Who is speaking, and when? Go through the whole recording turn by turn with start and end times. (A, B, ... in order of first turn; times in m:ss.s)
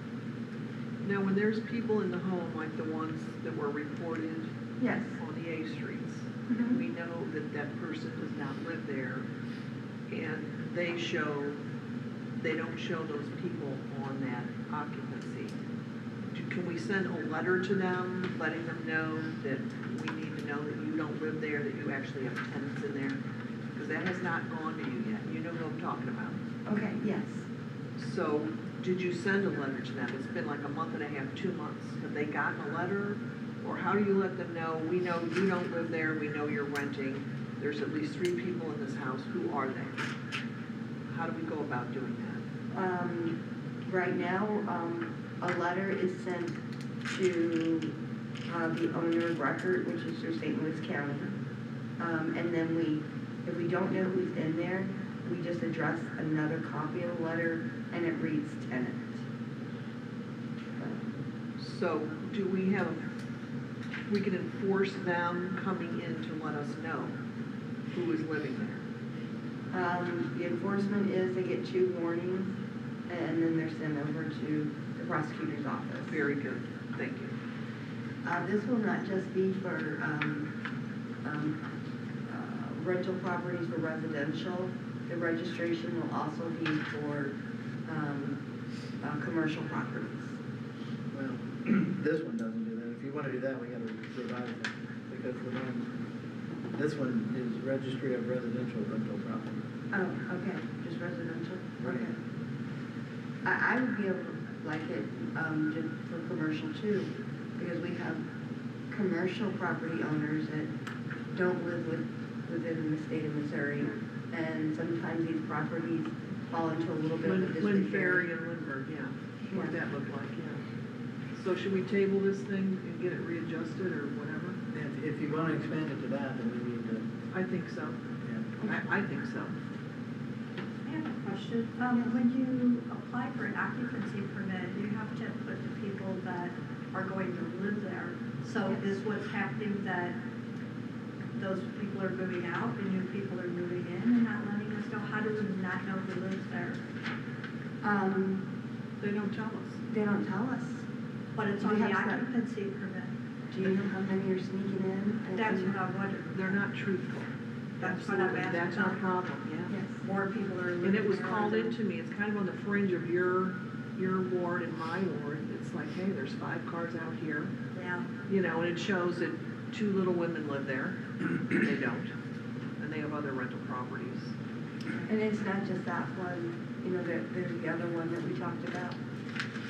0:01.0-0:04.5 A
0:04.8-0:05.2 B
0:05.2-0:09.3 A
0:06.5-0:06.8 B
0:10.1-0:11.6 A
0:12.4-0:15.6 A
0:16.3-0:23.2 A
0:23.7-0:26.4 A
0:26.6-0:27.5 B
0:28.0-0:40.0 A
0:41.1-0:42.4 A
0:42.7-0:47.9 B
0:48.5-0:51.3 B
0:52.0-0:59.2 B
1:00.8-1:01.2 B
1:01.6-1:03.0 A
1:04.1-1:07.2 A
1:07.9-1:08.8 A
1:09.7-1:12.5 B
1:13.1-1:16.2 B
1:16.1-1:17.4 A
1:18.2-1:20.5 B
1:21.2-1:21.6 B
1:22.3-1:28.4 B
1:29.0-1:30.4 B
1:31.1-1:35.9 C
1:36.7-1:39.7 C
1:39.9-1:42.2 B
1:41.8-1:42.1 C
1:43.4-1:48.2 B
1:48.9-1:50.7 B
1:51.3-1:58.3 B
1:57.2-2:00.6 A
1:59.5-1:59.8 B
2:01.4-2:04.6 A
2:04.7-2:07.1 C
2:07.3-2:08.0 A
2:08.2-2:08.5 C
2:08.6-2:09.6 A
2:10.8-2:20.2 D
2:11.9-2:12.2 B
2:21.4-2:26.8 D
2:27.8-2:28.5 B
2:29.0-2:29.8 A
2:29.9-2:30.9 B
2:31.4-2:33.1 D
2:31.6-2:32.3 B
2:33.5-2:35.8 B
2:35.3-2:36.6 D
2:36.3-2:39.8 A
2:37.8-2:39.0 D
2:39.7-2:40.1 B
2:40.0-2:41.8 D
2:40.8-2:47.5 A
2:47.7-2:48.2 D
2:48.3-2:52.1 A
2:52.8-2:54.3 A
2:55.1-2:59.0 B